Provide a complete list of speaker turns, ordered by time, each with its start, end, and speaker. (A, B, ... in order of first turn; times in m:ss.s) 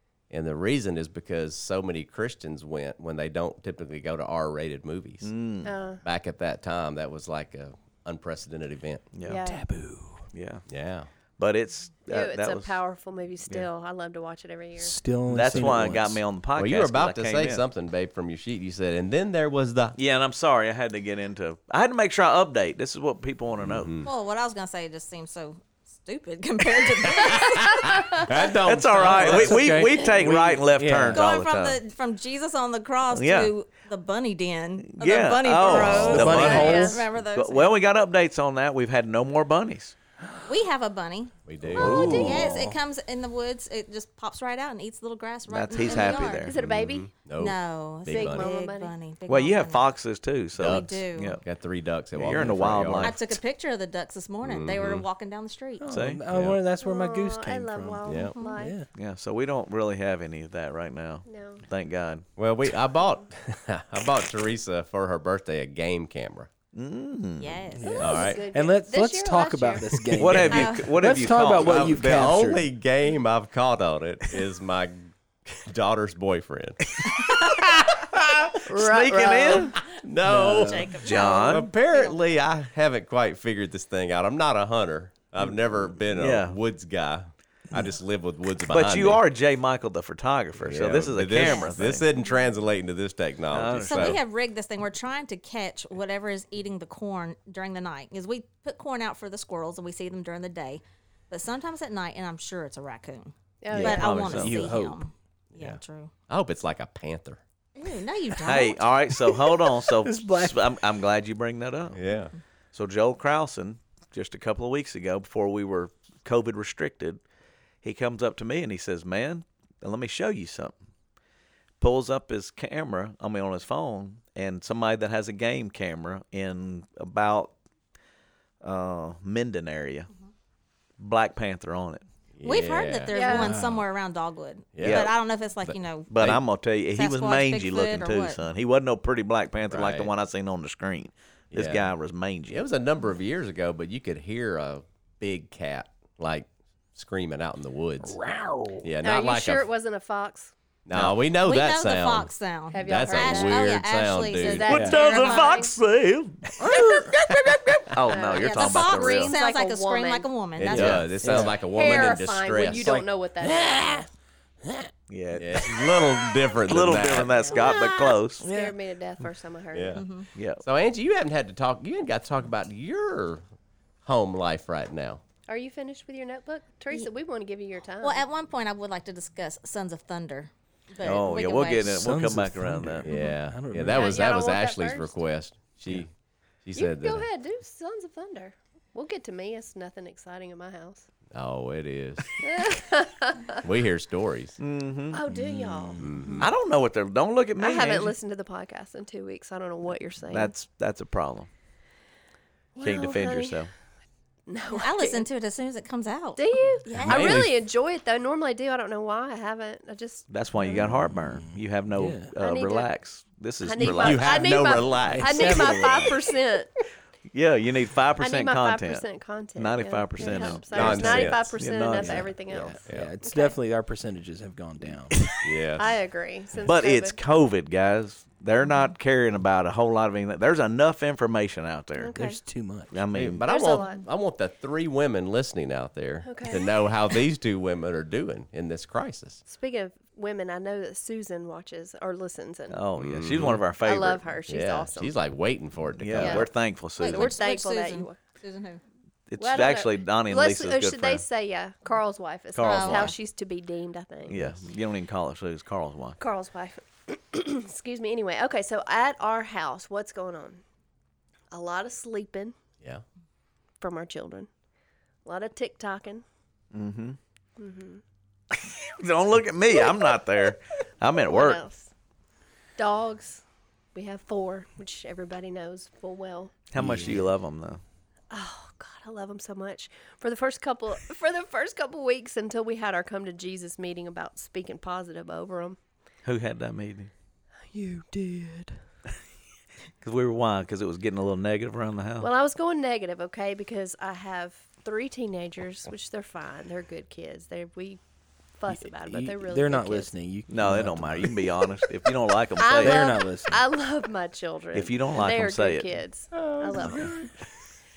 0:00.3-0:05.3 A
0:05.2-0:05.7 B
0:05.6-0:06.0 C
0:06.0-0:09.1 A
0:09.1-0:09.4 B
0:09.2-0:09.6 C
0:09.4-0:10.3 D
0:10.3-0:10.6 B
0:10.7-0:11.1 A
0:11.4-0:12.8 B
0:12.1-0:15.0 C
0:14.8-0:16.2 D
0:15.3-0:17.6 B
0:16.6-0:20.0 A
0:20.0-0:24.0 B
0:23.6-0:24.1 A
0:24.0-0:28.4 E
0:27.0-0:29.9 A
0:28.6-0:31.8 B
0:28.9-0:31.2 D
0:31.1-0:37.8 E
0:33.1-0:33.5 B
0:34.8-0:39.9 B
0:35.7-0:37.0 D
0:36.3-0:37.0 C
0:40.5-0:46.5 E
0:41.5-0:42.3 A
0:41.8-0:42.6 C
0:41.8-0:42.6 B
0:45.5-0:46.5 B
0:45.8-0:47.1 C
0:46.6-0:48.5 A
0:47.4-0:49.9 E
0:48.1-0:48.9 C
0:49.3-0:51.4 B
0:50.6-0:53.2 A
0:50.6-0:51.4 E
0:52.2-0:53.2 B
0:53.0-0:55.8 E
0:54.4-0:55.1 A
0:55.8-0:58.9 D
0:55.9-0:56.2 B
0:56.3-0:56.6 A
0:56.8-0:58.8 C
0:58.1-0:58.3 A
0:59.0-1:02.3 B
1:01.3-1:01.6 C
1:02.4-1:06.5 A
1:06.7-1:07.7 B
1:07.4-1:08.3 E
1:07.8-1:12.7 D
1:07.9-1:10.0 C
1:08.0-1:08.4 A
1:10.2-1:12.3 B
1:10.4-1:11.0 E
1:11.6-1:17.0 A
1:17.0-1:19.8 B
1:18.6-1:19.8 C
1:19.9-1:29.2 A
1:20.2-1:21.0 D
1:20.6-1:22.2 E
1:21.0-1:21.7 B
1:26.1-1:26.6 B
1:28.7-1:32.0 B
1:30.6-1:34.2 A
1:31.4-1:31.7 E
1:33.5-1:34.2 B
1:33.8-1:46.1 E
1:43.6-1:44.2 C
1:43.7-1:45.0 D
1:44.0-1:44.6 B
1:45.6-1:47.4 A
1:47.8-1:48.9 E
1:48.4-1:52.0 B
1:49.9-1:50.6 D
1:51.9-1:52.3 A
1:52.7-1:57.2 B
1:57.8-2:00.8 B
2:01.8-2:07.5 B
2:08.6-2:10.1 B
2:11.0-2:12.0 B
2:12.4-2:13.6 A
2:12.4-2:16.1 E
2:13.1-2:13.5 C
2:13.3-2:13.8 D
2:14.8-2:15.1 A
2:14.8-2:15.1 B
2:15.6-2:16.4 A
2:16.1-2:22.6 B
2:17.0-2:18.4 E
2:19.7-2:20.1 A
2:21.5-2:21.9 A
2:22.5-2:28.2 A
2:28.2-2:28.8 D
2:28.8-2:29.7 A
2:29.0-2:30.5 C
2:30.9-2:34.7 A
2:31.3-2:35.6 E
2:32.7-2:33.7 C
2:34.4-2:35.7 C
2:34.7-2:39.3 B
2:34.7-2:35.0 D
2:36.7-2:37.2 D
2:38.0-2:40.3 C
2:38.3-2:41.1 E
2:40.6-2:43.0 A
2:40.7-2:41.1 B
2:41.2-2:41.6 D
2:41.3-2:44.1 C
2:42.8-2:44.1 D
2:44.6-2:44.9 D
2:45.1-2:48.4 B
2:45.3-2:47.6 A
2:47.5-2:50.0 C
2:48.4-2:48.8 D
2:49.7-2:50.1 A
2:50.0-2:50.3 E
2:50.4-2:50.6 B
2:50.6-2:53.4 A
2:54.0-2:55.2 A
2:55.5-2:58.2 C
2:58.0-3:02.0 E
3:01.0-3:03.1 B
3:01.8-3:04.1 D
3:03.0-3:06.1 A
3:03.9-3:05.2 C
3:06.6-3:07.3 A
3:06.8-3:11.1 C
3:11.3-3:12.4 A
3:12.4-3:13.6 C
3:13.6-3:14.6 A
3:14.6-3:15.2 B
3:15.1-3:16.4 C
3:15.4-3:16.4 D
3:16.0-3:16.5 A
3:16.4-3:18.1 B
3:17.6-3:20.5 C
3:20.3-3:21.5 B
3:22.8-3:23.6 C
3:22.8-3:23.7 B
3:24.5-3:25.3 C
3:24.7-3:27.4 E
3:26.4-3:30.3 C
3:27.0-3:27.6 A
3:30.3-3:34.9 B
3:30.8-3:32.3 D
3:32.4-3:32.9 C
3:33.6-3:36.7 C
3:33.8-3:36.2 A
3:35.0-3:36.1 D
3:37.3-3:39.0 B
3:38.2-3:43.6 C
3:39.6-3:42.3 B
3:40.7-3:41.5 A
3:42.0-3:45.2 D
3:42.8-3:43.1 A
3:45.4-3:45.9 A
3:45.8-3:47.2 C
3:46.6-3:52.2 B
3:52.0-3:52.4 C
3:52.1-3:53.0 D
3:52.9-3:53.5 B
3:53.1-3:59.4 A
3:53.5-3:54.0 C
3:56.2-3:56.7 C
3:59.5-4:02.8 C
4:02.7-4:04.2 B
4:03.0-4:03.6 A
4:03.8-4:05.1 C
4:04.5-4:06.5 A
4:06.0-4:07.4 B
4:06.2-4:08.2 C
4:07.0-4:08.8 E
4:09.3-4:11.2 B
4:09.4-4:14.4 C
4:12.6-4:13.1 B
4:12.6-4:13.1 E
4:14.3-4:16.2 B
4:14.3-4:14.6 A
4:16.2-4:20.6 C
4:21.5-4:22.6 C
4:23.8-4:24.5 C
4:25.2-4:26.2 C
4:26.7-4:27.2 B
4:27.6-4:28.0 C
4:28.5-4:31.6 B
4:31.3-4:31.9 C
4:32.8-4:33.4 C
4:34.0-4:36.6 C
4:36.7-4:37.8 B
4:36.8-4:37.2 D
4:38.3-4:45.8 C
4:46.2-4:47.1 B
4:47.7-4:48.8 C
4:50.0-4:52.3 B
4:52.2-4:58.0 C
4:58.6-5:00.1 C
4:59.1-5:01.8 D
5:00.5-5:03.0 B
5:02.6-5:07.2 C
5:02.8-5:03.6 D
5:04.7-5:05.9 B
5:06.4-5:07.2 A
5:06.9-5:07.3 D